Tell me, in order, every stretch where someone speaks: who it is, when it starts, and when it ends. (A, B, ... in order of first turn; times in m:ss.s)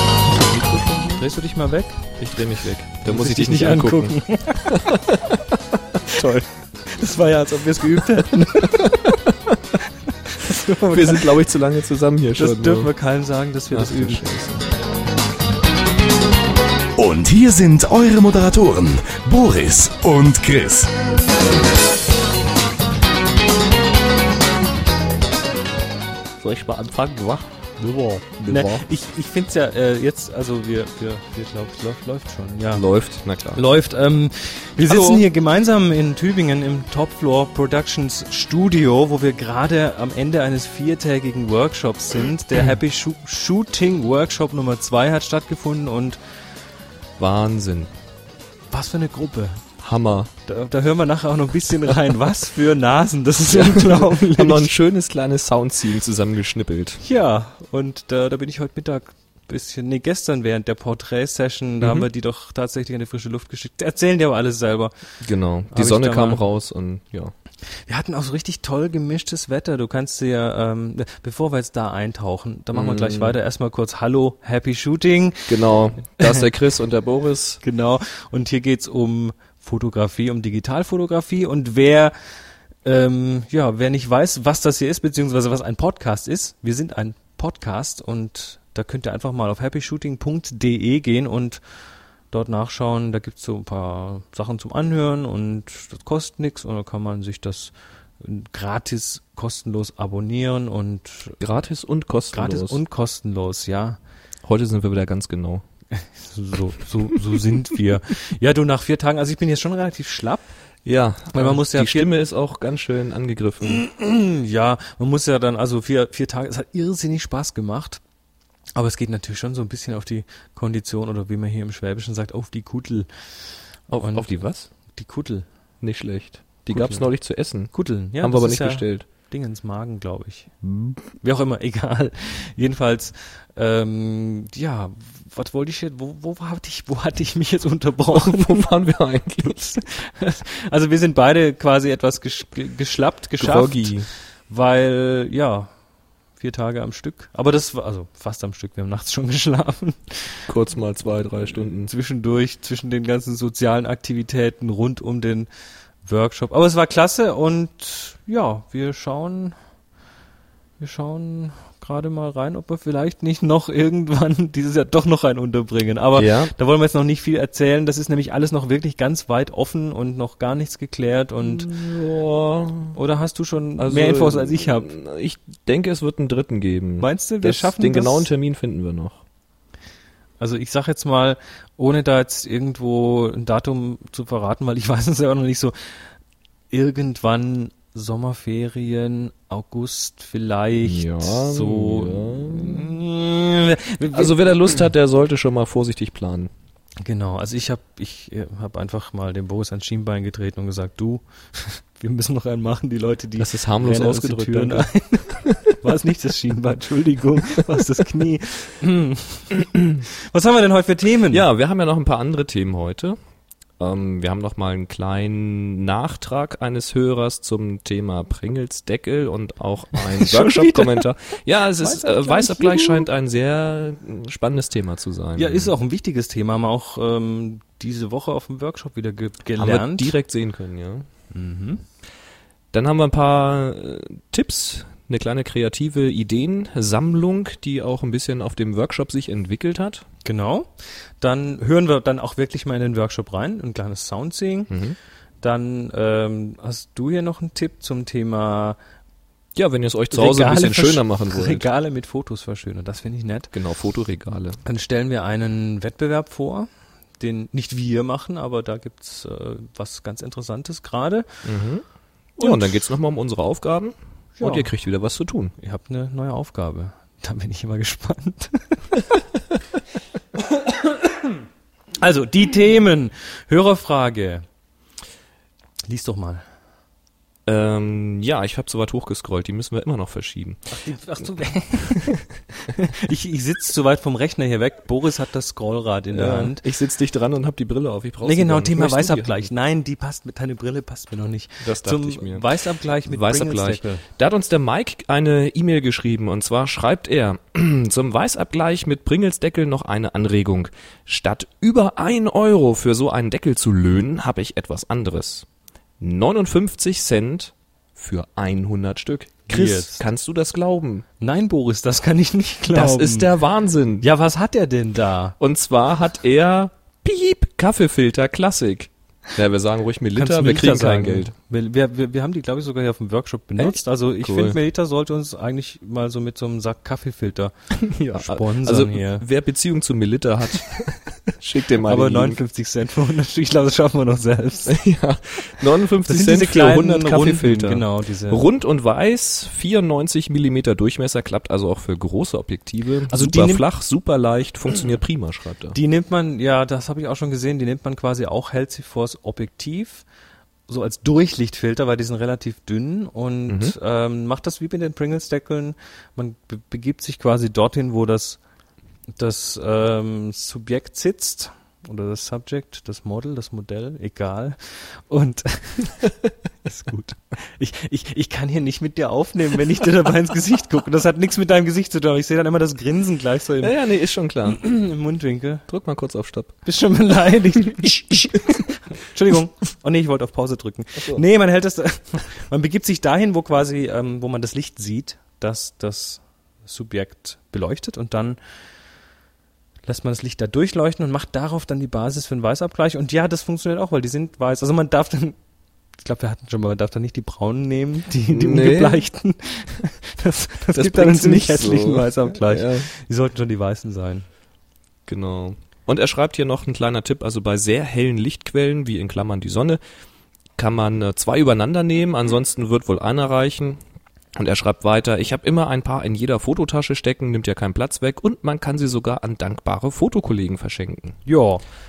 0:00.4-0:01.2 A
0:01.2-0:02.0 B
0:02.2-0:05.3 A
0:03.0-0:04.9 B
0:06.2-0:09.0 B
0:10.4-0:11.3 B
0:10.9-0:12.9 A
0:12.4-0:14.4 B
0:13.7-0:14.6 A
0:17.0-0:20.9 C
0:26.4-0:28.8 A
0:28.5-0:32.8 B
0:32.7-0:33.6 A
0:33.5-0:46.2 B
0:34.8-0:35.2 A
0:47.2-0:47.9 A
0:48.7-0:49.6 B
0:49.8-0:50.3 A
0:50.5-0:54.7 B
0:53.5-0:57.0 A
0:57.0-1:04.9 B
1:01.8-1:02.0 A
1:05.2-1:07.3 A
1:05.7-1:06.4 B
1:07.6-1:15.6 B
1:12.7-1:13.4 A
1:15.5-1:17.6 A
1:17.6-1:41.4 B
1:41.4-1:42.8 A
1:42.3-1:44.0 B
1:44.4-1:45.6 A
1:45.9-1:50.5 B
1:50.8-1:53.8 A
1:51.3-1:52.1 B
1:53.7-1:58.0 B
1:58.8-2:05.4 B
2:03.9-2:04.7 A
2:05.8-2:09.1 A
2:06.7-2:10.6 B
2:10.6-2:11.0 A
2:11.2-2:18.7 B
2:18.1-2:19.7 A
2:19.5-2:25.7 B
2:23.4-2:24.1 A
2:26.4-2:30.4 B
2:30.5-2:31.9 A
2:31.9-2:35.5 B
2:36.0-2:39.6 B
2:40.8-2:51.7 B
2:46.1-2:46.5 A
2:51.4-2:53.0 A
2:52.9-2:54.9 B
2:53.8-2:59.2 A
2:57.0-2:58.3 B
3:00.4-3:06.1 B
3:06.7-3:14.5 B
3:10.8-3:12.9 A
3:14.1-3:16.5 A
3:17.0-3:31.4 B
3:23.4-3:25.5 A
3:31.3-3:33.2 A
3:33.8-3:45.7 A
3:40.2-3:41.1 B
3:41.8-3:43.1 B
3:45.4-3:50.1 B
3:49.6-3:51.1 A
3:51.3-3:51.8 B
3:52.7-4:00.0 A
4:00.2-4:04.7 B
4:04.7-4:05.0 A
4:05.4-4:08.8 B
4:09.5-4:11.6 A
4:10.1-4:13.5 B
4:13.5-4:14.6 A
4:14.6-4:21.3 B
4:21.4-4:21.8 A
4:22.4-4:25.5 A
4:22.4-4:22.8 B
4:24.4-4:24.7 B
4:25.6-4:29.0 B
4:32.0-4:34.4 B
4:35.8-4:36.4 B
4:37.4-4:40.6 A
4:40.7-4:42.2 B
4:42.8-4:46.6 B
4:46.1-4:49.5 A
4:48.2-4:54.0 B
4:51.6-4:52.5 A
4:53.0-5:05.4 A
5:06.0-5:11.0 A
5:09.5-5:10.0 B
5:11.2-5:13.3 B
5:12.7-5:14.1 A
5:14.0-5:15.4 B
5:15.4-5:21.3 A
5:20.2-5:27.5 B
5:23.6-5:24.6 A
5:27.8-5:32.4 A
5:28.1-5:29.2 B
5:31.8-5:34.8 B
5:34.7-5:45.8 A
5:36.0-5:38.4 B
5:43.1-5:43.6 B
5:45.7-5:50.0 B
5:50.7-5:58.4 B
5:53.5-5:53.7 A
5:59.2-6:06.1 B
6:06.6-6:13.8 B
6:13.6-6:14.7 A
6:14.5-6:15.6 B
6:15.7-6:16.6 A
6:16.6-6:28.4 B
6:21.0-6:21.2 A
6:29.8-6:35.4 B
6:36.0-6:44.2 B
6:38.3-6:39.0 A
6:40.7-6:42.9 A
6:45.1-6:49.8 A
6:50.6-6:53.8 A
6:54.4-7:01.2 A
7:01.2-7:01.6 B